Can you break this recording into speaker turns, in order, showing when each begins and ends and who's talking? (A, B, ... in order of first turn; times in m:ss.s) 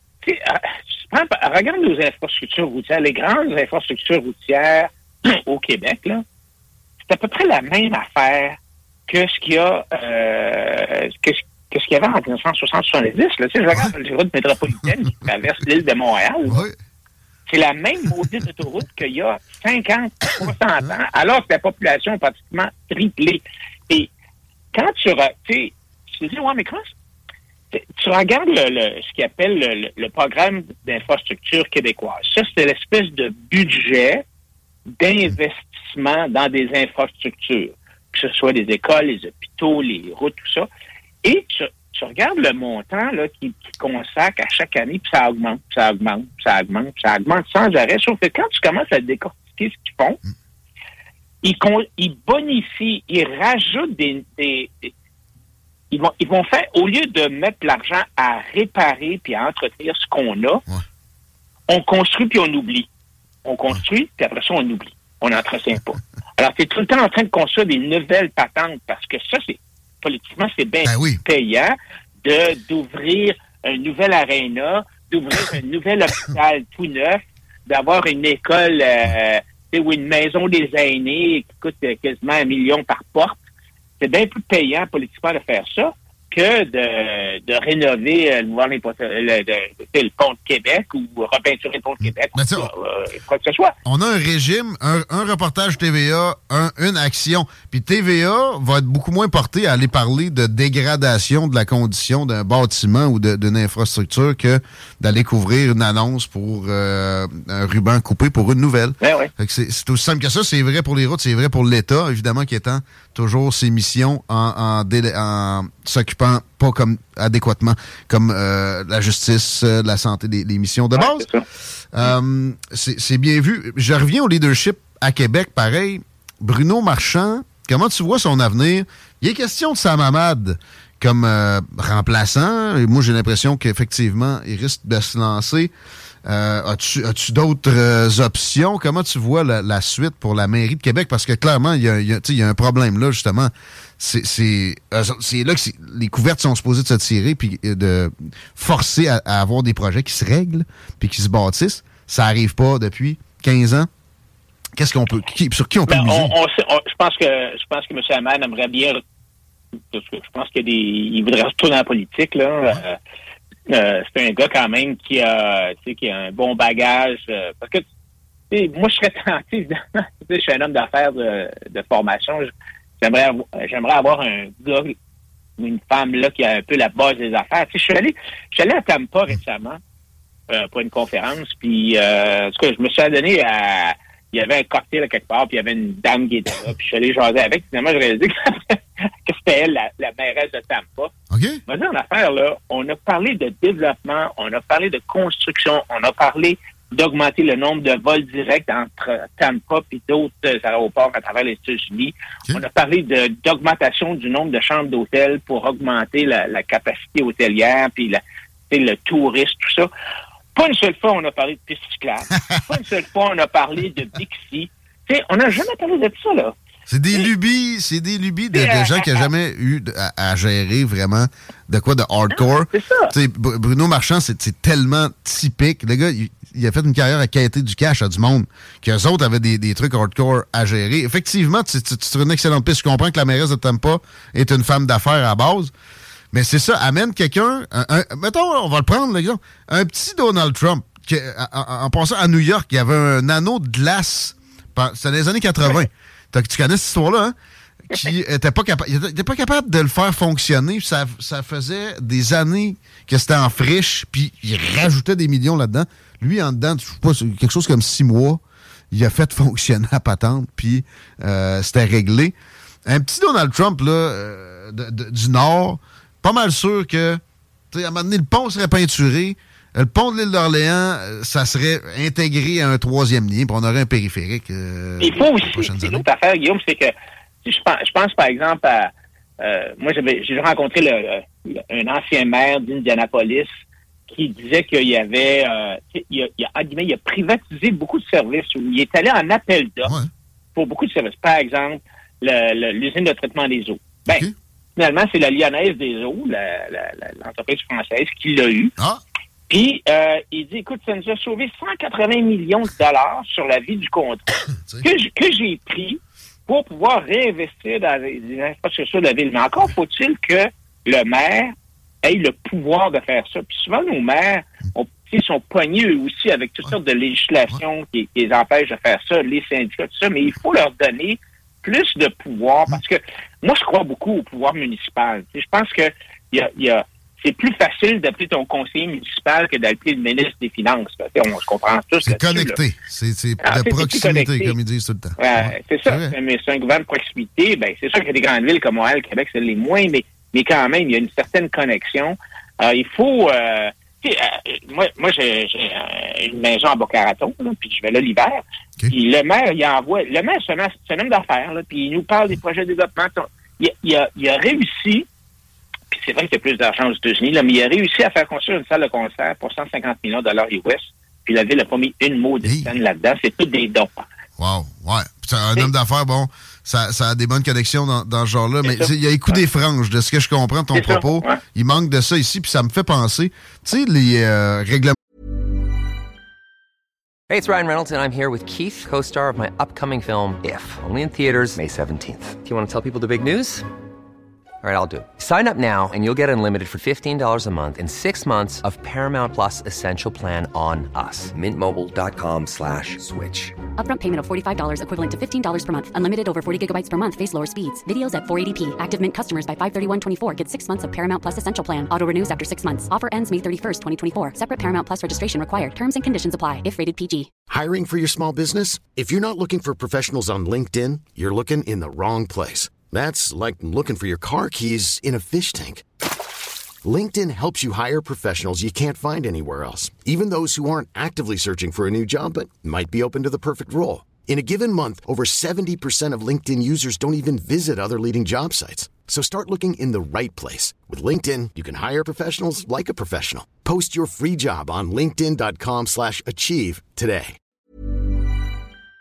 0:00.2-0:06.2 A
0:07.1-0:08.6 A
0:09.1-0:16.6 A
0:16.5-0:16.7 B
0:17.5-0:24.1 A
0:24.7-0:26.9 A
0:27.7-0:34.2 A
0:35.0-0:40.7 A
0:41.2-0:50.2 A
0:51.4-0:54.9 A
0:55.9-1:00.6 A
1:01.7-1:02.9 A
1:03.4-1:23.4 A
1:10.8-1:11.2 B
1:24.0-1:33.7 A
1:32.3-1:32.7 B
1:33.8-2:01.3 B
1:49.0-1:49.3 A
2:01.0-2:01.4 A
2:01.9-2:15.7 B
2:16.2-2:33.9 B
2:34.8-2:36.3 B
2:35.9-2:39.0 A
2:39.9-2:43.0 A
2:43.7-2:47.8 A
2:48.5-2:54.9 A
2:55.6-2:59.8 A
3:00.5-3:11.1 A
3:11.3-3:11.6 B
3:11.7-3:29.9 A
3:30.5-3:36.5 A
3:36.9-3:55.7 B
3:38.5-3:39.3 A
3:42.3-3:43.1 A
3:56.3-4:07.3 B
4:07.9-4:22.3 B
4:22.8-4:27.2 B
4:27.7-4:36.1 B
4:35.0-4:36.9 A
4:37.4-4:43.5 A
4:44.1-4:49.9 A
4:49.8-4:50.1 B
4:50.5-4:58.7 A
4:54.1-4:54.3 B
4:59.5-5:32.6 A
5:04.6-5:04.8 B
5:32.0-5:36.1 B
5:33.4-5:34.6 A
5:35.2-5:55.0 A
5:55.9-6:04.0 A
6:02.4-6:02.7 B
6:04.4-6:15.0 B
6:08.6-6:09.4 A
6:10.7-6:11.4 A
6:17.3-6:23.6 C
6:24.6-6:33.6 C
6:33.8-6:47.3 D
6:47.5-6:55.8 E
6:56.8-7:17.4 E